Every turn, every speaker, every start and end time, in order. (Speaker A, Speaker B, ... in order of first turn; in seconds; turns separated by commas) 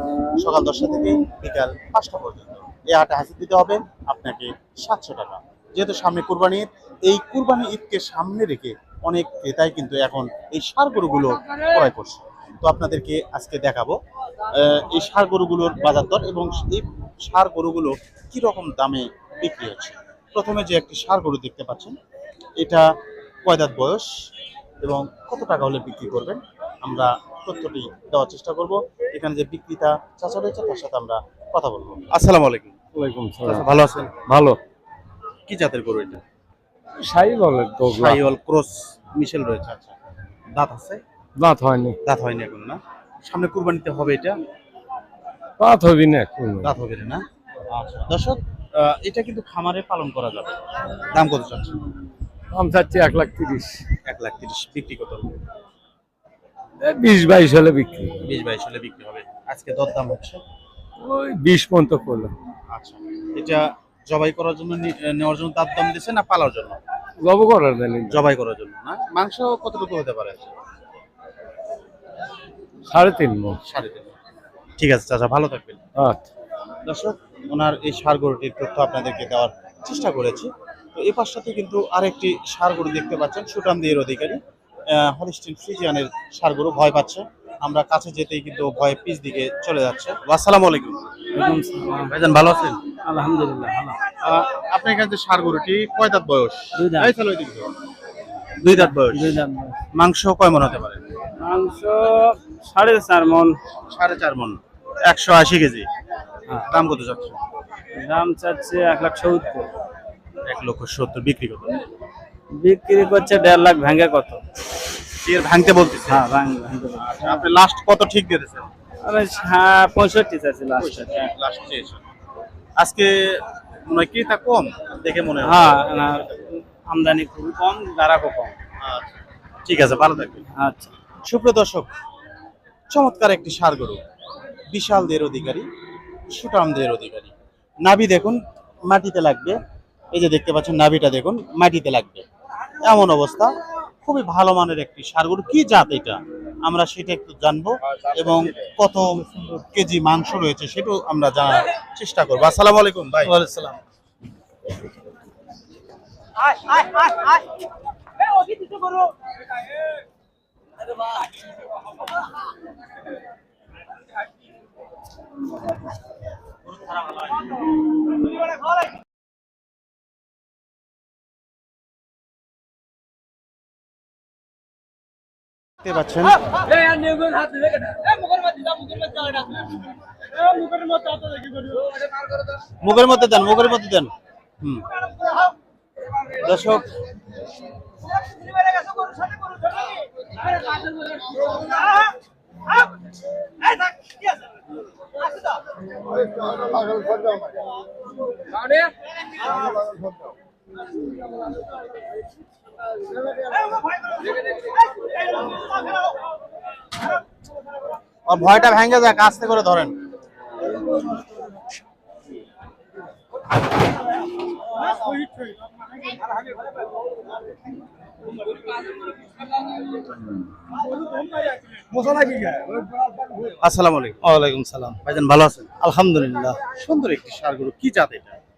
Speaker A: 0.4-14.0, Speaker A: 14.6-21.9, Speaker A: 22.6-22.9, Speaker A: 23.4-24.1, Speaker A: 24.8-32.8, Speaker B: 32.9-34.6, Speaker A: 33.4-34.3, Speaker A: 35.5-36.2, Speaker B: 37.0-38.2, Speaker A: 37.9-39.9, Speaker A: 40.5-41.0, Speaker B: 41.4-42.0, Speaker A: 42.0-44.4, Speaker B: 45.6-46.7, Speaker A: 46.6-51.8, Speaker B: 52.5-53.8, Speaker A: 54.0-55.3, Speaker B: 56.8-58.3, Speaker A: 58.2-60.4, Speaker B: 61.0-62.3, Speaker A: 62.7-66.8, Speaker B: 67.2-68.2, Speaker A: 68.1-70.5, Speaker B: 72.9-73.6, Speaker A: 73.6-74.1, Speaker A: 74.8-75.8, Speaker B: 76.0-76.2, Speaker A: 76.8-84.4, Speaker A: 84.9-91.0, Speaker C: 91.3-92.1, Speaker A: 92.1-92.8, Speaker C: 92.9-94.0, Speaker A: 94.2-97.7, Speaker C: 96.8-97.1, Speaker A: 98.6-99.4, Speaker C: 98.6-99.8, Speaker A: 99.9-101.0, Speaker C: 101.4-103.5, Speaker A: 103.9-105.9, Speaker A: 106.6-107.4, Speaker C: 107.9-109.7, Speaker A: 110.4-111.8, Speaker C: 112.5-114.4, Speaker A: 115.2-116.2, Speaker C: 116.0-117.5, Speaker A: 117.0-118.7, Speaker C: 119.0-121.3, Speaker A: 120.8-122.0, Speaker A: 122.8-125.8, Speaker C: 125.4-128.6, Speaker A: 128.8-130.4, Speaker C: 130.5-130.9, Speaker A: 131.2-131.9, Speaker A: 132.9-134.0, Speaker A: 134.7-135.7, Speaker A: 136.3-137.3, Speaker A: 137.8-139.6, Speaker A: 140.1-142.2, Speaker A: 142.8-153.3, Speaker C: 153.2-153.8, Speaker C: 156.7-157.4, Speaker C: 158.5-159.1, Speaker A: 175.8-176.4, Speaker C: 176.9-179.4, Speaker C: 180.7-181.3, Speaker A: 182.8-184.8, Speaker A: 186.4-186.8, Speaker A: 208.2-209.9, Speaker C: 222.1-222.8, Speaker A: 223.6-224.2, Speaker C: 224.2-225.0, Speaker A: 225.0-225.7, Speaker C: 225.8-226.6, Speaker A: 226.7-228.4